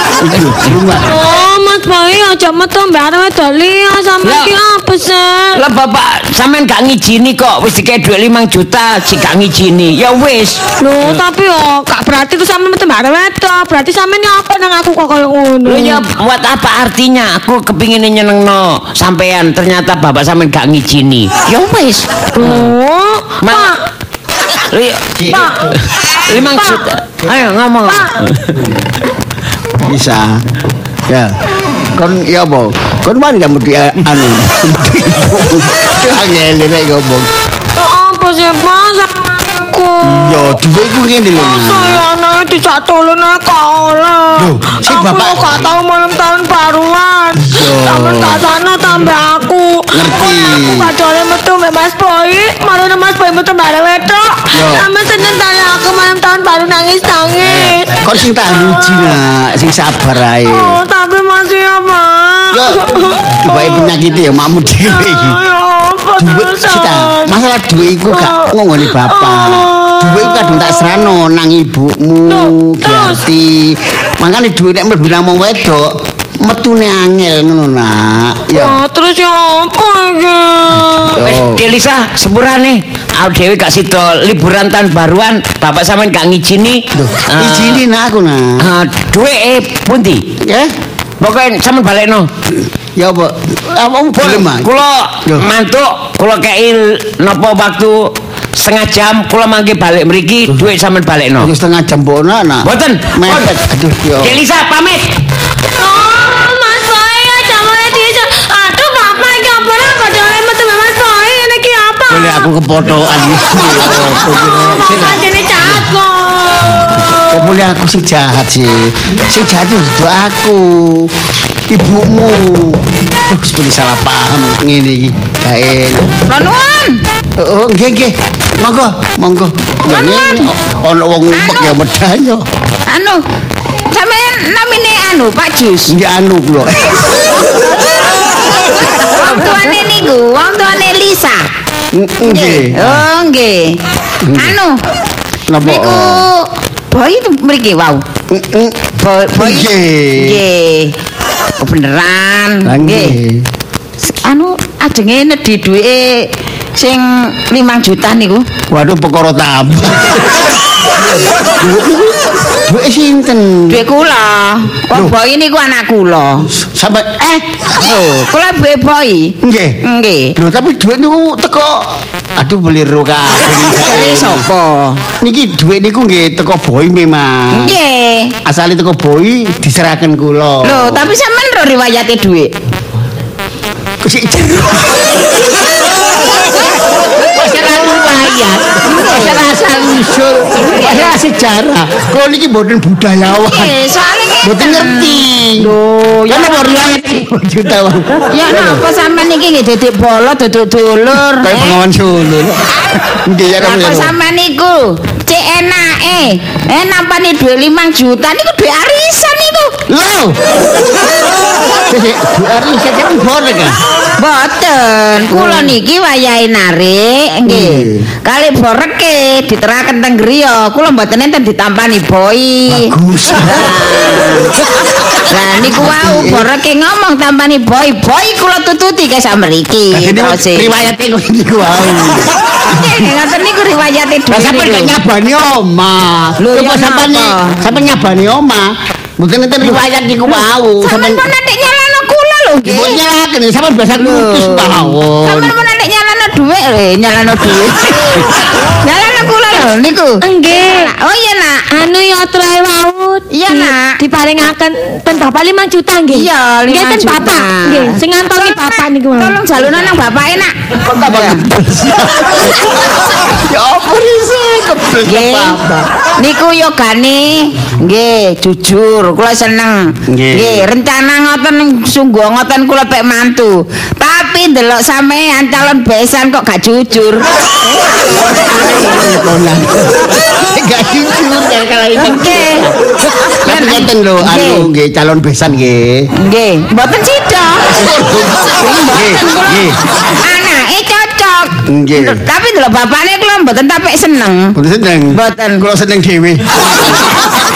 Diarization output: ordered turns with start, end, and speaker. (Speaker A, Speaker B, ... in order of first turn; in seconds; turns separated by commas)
Speaker A: 0.2-1.2, Speaker B: 0.9-5.6, Speaker C: 4.2-4.5, Speaker C: 5.6-11.2, Speaker B: 10.8-16.0, Speaker C: 15.7-22.7, Speaker B: 22.4-23.8, Speaker C: 23.4-23.7, Speaker C: 24.7-25.1, Speaker A: 25.2-25.8, Speaker B: 25.3-25.7, Speaker C: 26.3-28.6, Speaker B: 26.3-26.9, Speaker B: 27.9-28.2, Speaker A: 29.8-30.4, Speaker A: 31.1-31.4, Speaker A: 31.9-37.3, Speaker B: 37.8-40.6, Speaker A: 40.0-42.0, Speaker B: 41.4-59.0, Speaker A: 44.4-45.7, Speaker A: 47.4-48.5, Speaker A: 49.9-50.9, Speaker A: 54.5-54.9, Speaker A: 57.4-60.8, Speaker B: 60.5-63.9, Speaker A: 62.5-65.4, Speaker B: 64.8-71.1, Speaker A: 66.2-78.8, Speaker B: 72.3-73.2, Speaker B: 78.5-81.3, Speaker A: 81.2-81.6, Speaker C: 81.2-87.8, Speaker A: 86.9-88.6, Speaker C: 88.6-90.3, Speaker A: 90.4-90.7, Speaker C: 91.2-92.3, Speaker A: 93.0-94.7, Speaker C: 94.2-101.5, Speaker A: 101.4-104.4, Speaker C: 102.6-103.5, Speaker C: 104.2-105.1, Speaker B: 105.8-112.5, Speaker A: 112.1-115.9, Speaker B: 114.5-117.5, Speaker A: 117.0-121.1, Speaker A: 121.7-126.2, Speaker D: 126.3-127.0, Speaker A: 127.4-132.5, Speaker D: 129.9-130.5, Speaker D: 131.4-131.7, Speaker D: 132.9-133.2, Speaker D: 133.9-136.0, Speaker A: 135.9-137.0, Speaker D: 139.0-141.5, Speaker A: 141.9-143.0, Speaker D: 142.2-143.8, Speaker A: 144.2-144.6, Speaker D: 144.3-144.8, Speaker A: 145.5-146.3, Speaker D: 145.6-148.0, Speaker A: 148.3-150.4, Speaker D: 149.0-150.9, Speaker D: 151.6-153.2, Speaker A: 152.7-153.4, Speaker D: 154.1-158.5, Speaker A: 158.7-163.8, Speaker D: 163.7-166.5, Speaker A: 166.5-167.6, Speaker D: 167.8-170.4, Speaker A: 169.4-169.8, Speaker A: 170.4-174.4, Speaker D: 173.6-175.0, Speaker A: 175.2-177.8, Speaker D: 177.5-178.3, Speaker A: 178.4-181.0, Speaker D: 180.6-182.5, Speaker A: 184.0-185.1, Speaker A: 187.3-193.7, Speaker D: 188.8-189.4, Speaker D: 190.6-191.2, Speaker D: 193.3-197.1, Speaker A: 194.4-195.7, Speaker A: 196.3-198.8, Speaker D: 198.3-201.8, Speaker A: 201.4-204.1, Speaker D: 203.6-209.8, Speaker A: 209.9-210.4, Speaker A: 211.9-213.8, Speaker D: 214.2-224.5, Speaker A: 215.3-215.7, Speaker A: 217.5-218.1, Speaker A: 222.7-223.7, Speaker D: 225.3-230.7, Speaker A: 225.8-226.5, Speaker A: 229.9-233.1, Speaker D: 232.7-235.0, Speaker A: 234.3-241.3, Speaker D: 236.4-237.6, Speaker D: 240.4-243.0, Speaker A: 242.6-245.6, Speaker D: 243.9-251.7, Speaker B: 250.2-250.9, Speaker B: 251.7-259.4, Speaker D: 253.3-254.0, Speaker D: 256.1-261.4, Speaker A: 260.8-262.6, Speaker A: 263.5-265.9, Speaker D: 265.1-265.6, Speaker D: 266.2-278.7, Speaker A: 270.1-270.7, Speaker A: 278.1-282.8, Speaker D: 282.0-282.7, Speaker A: 283.4-286.1, Speaker D: 283.4-284.7, Speaker D: 286.2-287.7, Speaker A: 287.7-289.8, Speaker D: 288.6-289.7, Speaker D: 290.2-294.6, Speaker A: 291.7-292.2, Speaker A: 294.6-296.5, Speaker D: 295.1-295.6